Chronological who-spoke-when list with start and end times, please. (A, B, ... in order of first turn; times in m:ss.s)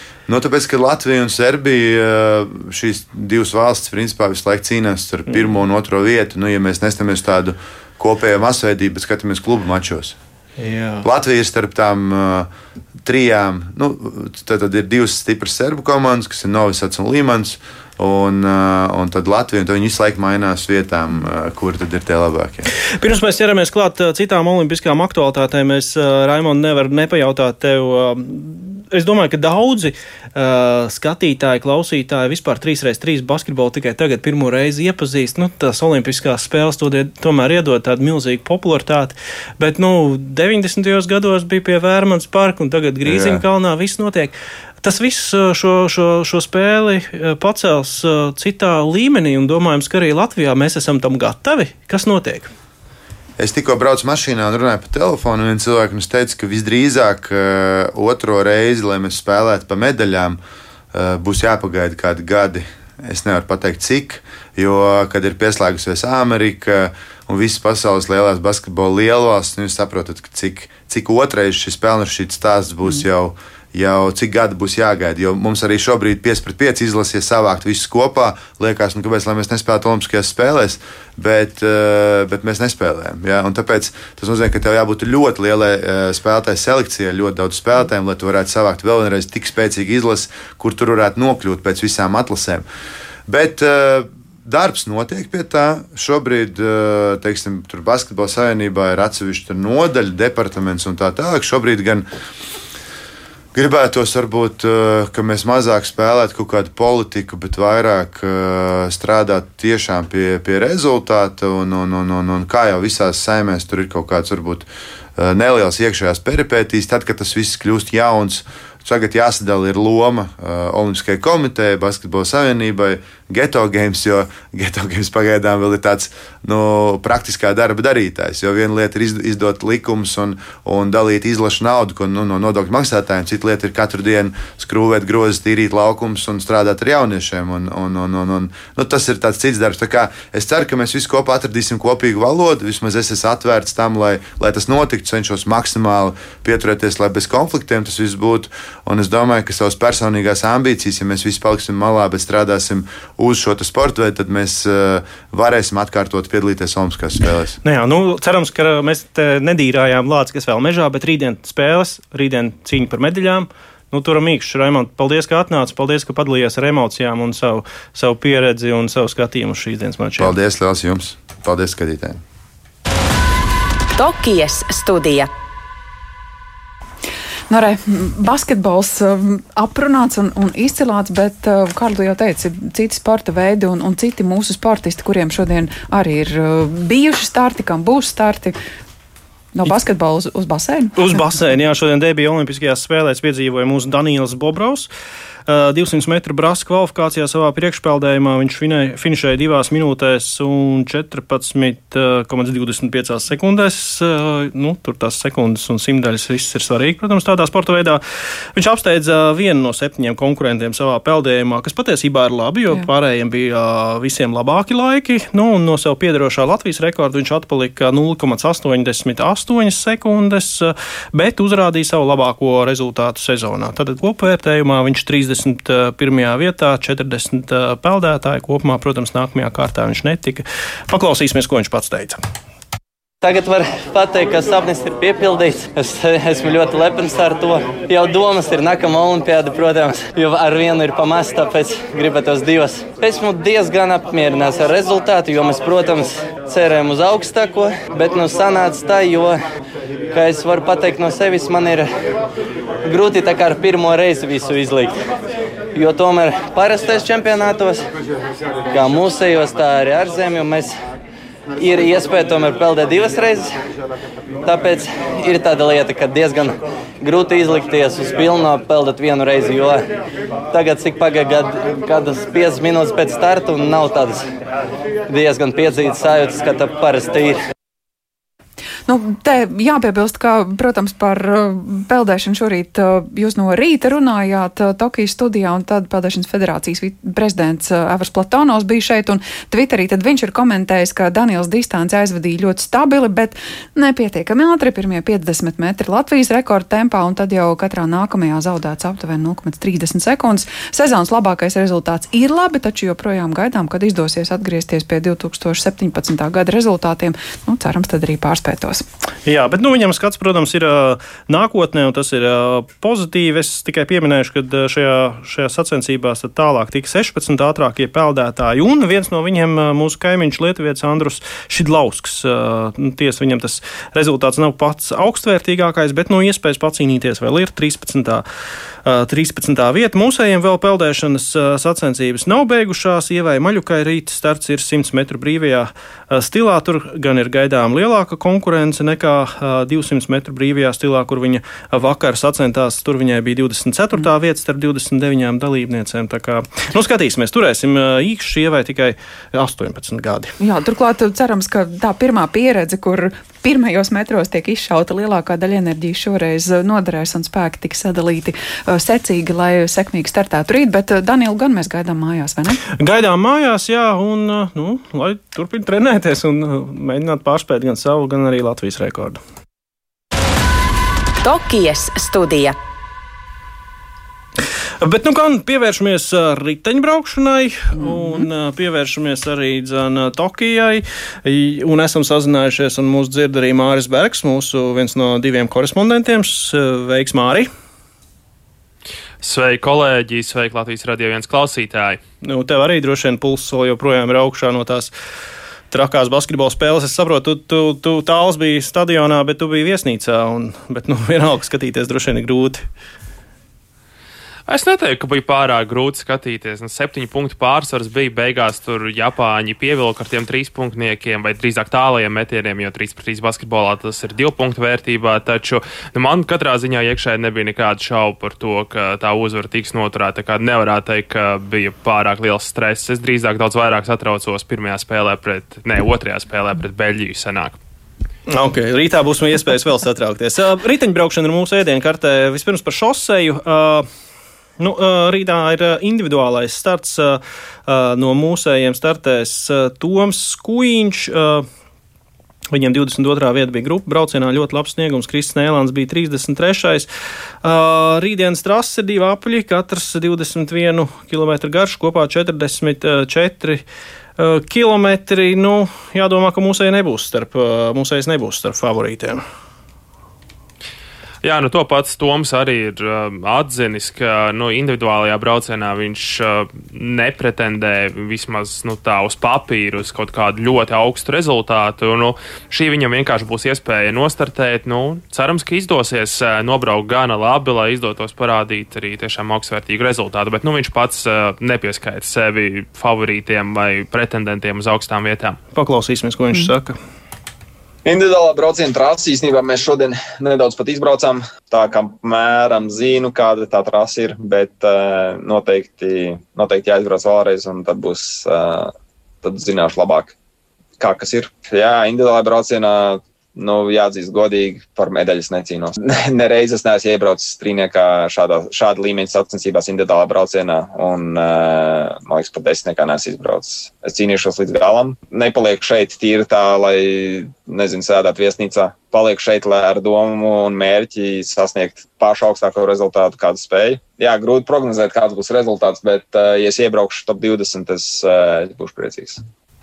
0:00.3-0:10.2 A
0:10.6-0:11.0 B
0:11.0-0:12.5 A
0:13.0-0:22.7 A
0:23.0-0:52.5 B
0:43.0-0:43.4 A
0:53.4-1:00.4 A
1:00.9-1:32.6 A
1:33.3-1:42.1 A
1:43.5-2:37.6 A
2:37.6-2:50.3 B
2:50.2-2:52.2 A
2:54.0-2:55.3 C
2:57.5-3:08.6 D
3:09.6-3:11.2 D
3:11.0-3:14.9 B
3:15.5-3:28.0 B
3:28.6-3:52.2 B
3:53.2-4:09.4 E
4:10.1-4:11.9 E
4:12.8-4:15.0 E
4:15.7-4:17.8 E
4:18.7-4:20.7 E
4:21.6-4:23.5 E
4:24.4-4:29.8 E
4:30.5-4:34.2 E
4:35.1-4:37.4 E
4:38.9-5:08.8 D
5:09.2-5:28.2 B
5:28.8-5:50.3 B
5:50.4-6:02.6 D
6:02.8-6:09.2 B
6:11.2-6:12.6 C
6:14.8-6:27.5 B
6:29.2-6:32.0 F
6:32.2-6:34.9 B
6:35.7-6:42.6 B
6:44.5-7:07.6 F
7:08.3-7:13.9 B
7:14.6-7:21.5 B
7:22.5-7:26.9 B
7:27.4-7:33.6 B
7:34.2-7:39.2 B
7:41.2-8:05.4 F
8:05.6-8:06.8 B
8:07.8-8:20.1 G
8:20.8-8:49.2 G